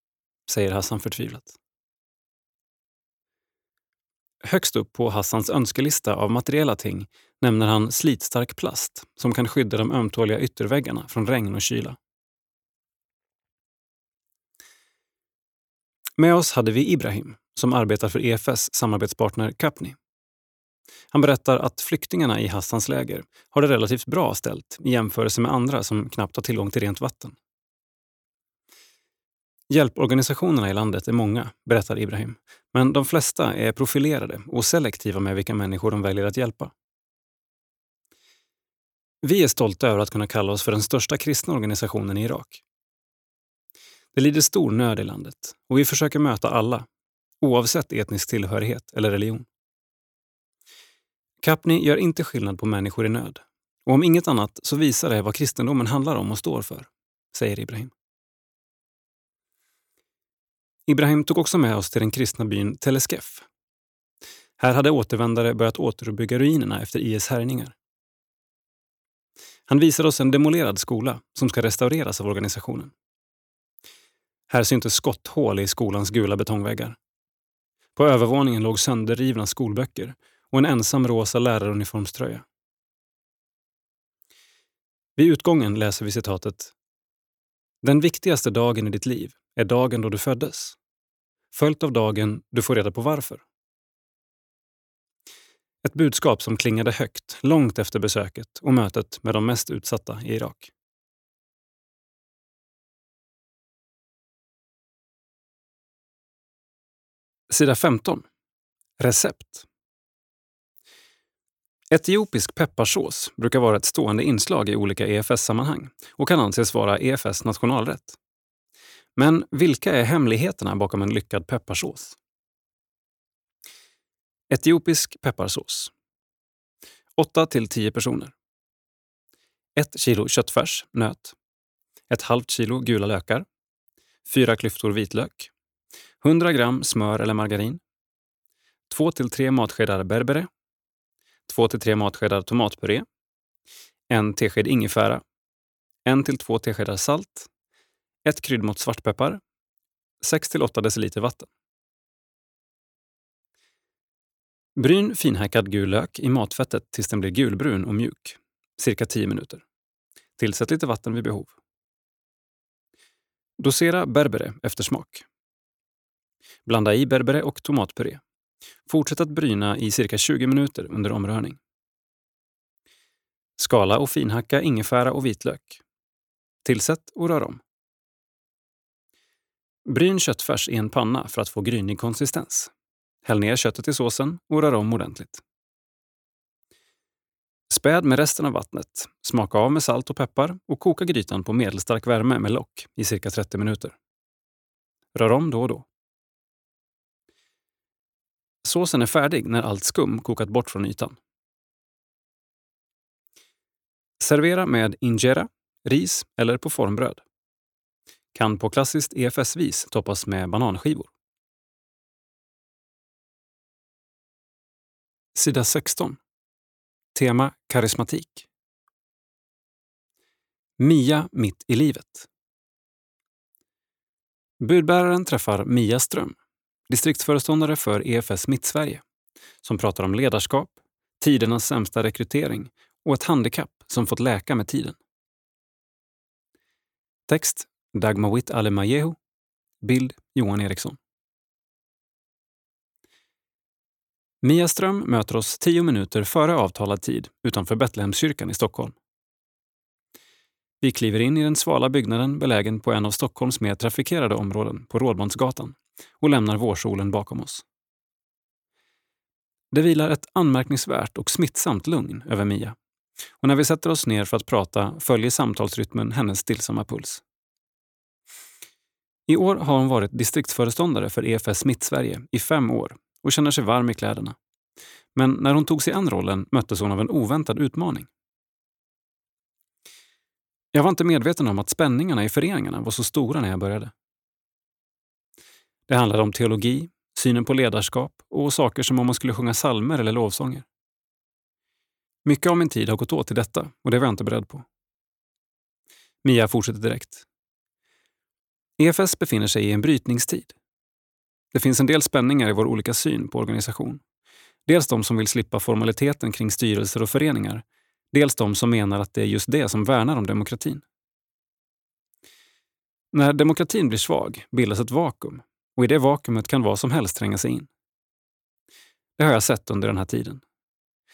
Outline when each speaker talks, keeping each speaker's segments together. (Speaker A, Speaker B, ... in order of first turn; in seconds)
Speaker A: 0.5-1.6, 4.4-12.0, 16.2-20.0, 21.1-27.4, 29.7-36.7, 39.2-42.6, 44.1-46.9, 47.4-49.5, 51.4-57.9, 60.9-63.5, 64.6-67.8, 69.7-72.9, 74.5-77.0, 78.0-82.5, 85.2-86.7, 87.8-90.8, 91.5-93.5, 95.8-100.7, 107.5-108.3, 109.0-109.7, 111.9-118.2, 119.2-122.2, 124.5-125.9, 127.2-128.3, 129.8-131.4, 132.1-133.5, 134.3-135.5, 136.2-137.8, 138.9-140.5, 141.5-143.1, 144.1-145.2, 146.1-147.5, 148.2-149.4, 150.2-151.5, 154.8-159.6, 160.4-161.6, 163.6-165.3, 166.7-168.2, 168.9-171.6, 173.6-175.8, 176.7-177.6, 179.9-182.7, 183.2-185.4, 187.7-194.0, 195.1-195.9, 198.6-201.2, 204.2-207.2, 208.3-211.1, 215.3-216.2, 217.2-218.5, 220.8-222.3, 224.6-226.4, 226.9-229.0, 229.6-235.0, 237.3-239.2, 239.8-241.0, 244.4-249.0, 250.8-257.6, 259.7-262.8, 263.4-267.2, 269.3-274.4, 275.1-278.1, 280.7-283.9, 285.9-290.7, 292.2-294.7, 296.2-297.2, 298.8-300.6, 301.5-304.0, 304.7-310.8, 313.1-317.7, 319.2-320.4